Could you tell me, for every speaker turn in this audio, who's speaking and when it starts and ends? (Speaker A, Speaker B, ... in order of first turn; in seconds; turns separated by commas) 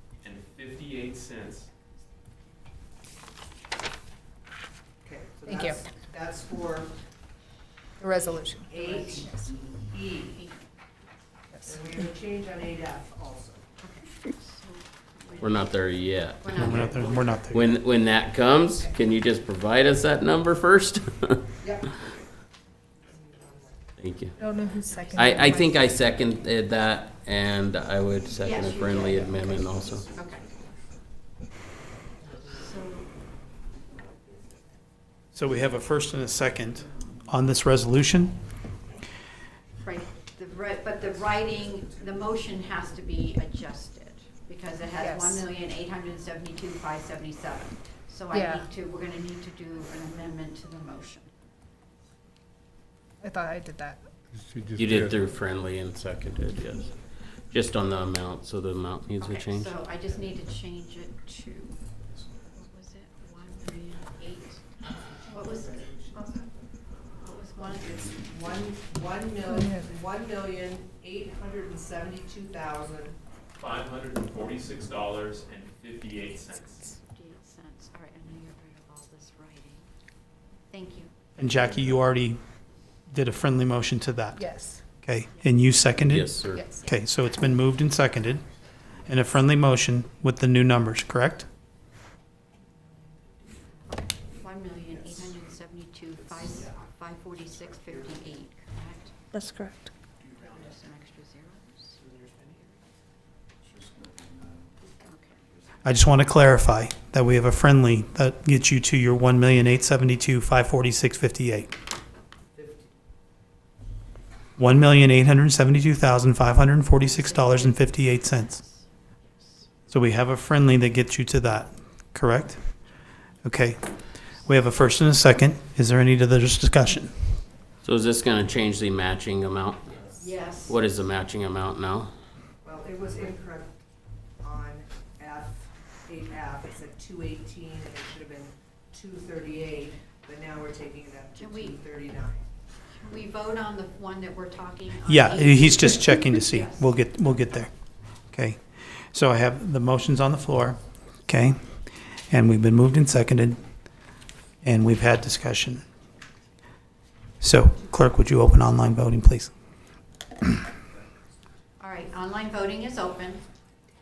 Speaker A: 0.2-1.7, Speaker B: 5.0-6.9, Speaker C: 5.5-5.8, Speaker C: 8.0-9.5, Speaker B: 8.7-10.4, Speaker D: 8.8-9.8, Speaker D: 10.3-10.6, Speaker B: 11.6-13.6, Speaker D: 13.8-15.8, Speaker E: 15.4-16.9, Speaker D: 16.4-17.2, Speaker F: 16.5-17.7, Speaker A: 16.8-17.6, Speaker E: 17.5-21.5, Speaker B: 21.6-21.9, Speaker B: 23.0-23.8, Speaker E: 24.0-24.4, Speaker C: 24.4-25.8, Speaker D: 24.9-25.4, Speaker E: 25.1-30.1, Speaker D: 28.4-30.4, Speaker D: 32.5-33.1, Speaker F: 35.3-38.4, Speaker D: 39.8-51.3, Speaker C: 45.0-45.4, Speaker C: 48.3-48.6, Speaker C: 53.2-54.0, Speaker E: 54.7-59.7, Speaker D: 59.2-61.8, Speaker D: 62.5-64.6, Speaker B: 65.2-66.1, Speaker D: 65.3-66.5, Speaker D: 67.2-68.0, Speaker B: 67.7-73.2, Speaker C: 69.5-69.9, Speaker A: 73.6-76.8, Speaker D: 76.9-79.9, Speaker D: 80.7-81.1, Speaker F: 81.4-82.4, Speaker F: 83.1-88.5, Speaker C: 84.4-84.8, Speaker D: 85.3-85.5, Speaker E: 86.0-86.7, Speaker C: 86.5-86.8, Speaker F: 89.0-91.5, Speaker B: 92.9-93.7, Speaker D: 93.9-99.4, Speaker C: 99.3-99.7, Speaker D: 100.3-102.0, Speaker D: 104.8-105.4, Speaker F: 105.8-111.7, Speaker B: 112.5-112.9, Speaker F: 114.6-118.6, Speaker D: 117.0-118.8, Speaker F: 119.9-122.9, Speaker F: 123.4-127.4, Speaker E: 127.8-130.1, Speaker D: 130.2-130.8, Speaker E: 130.6-132.1, Speaker B: 132.6-133.7, Speaker B: 134.4-142.4, Speaker D: 141.3-141.8, Speaker D: 142.9-146.9, Speaker F: 145.1-147.7, Speaker F: 148.3-153.6, Speaker F: 154.6-155.8, Speaker F: 157.4-159.5, Speaker D: 161.8-163.4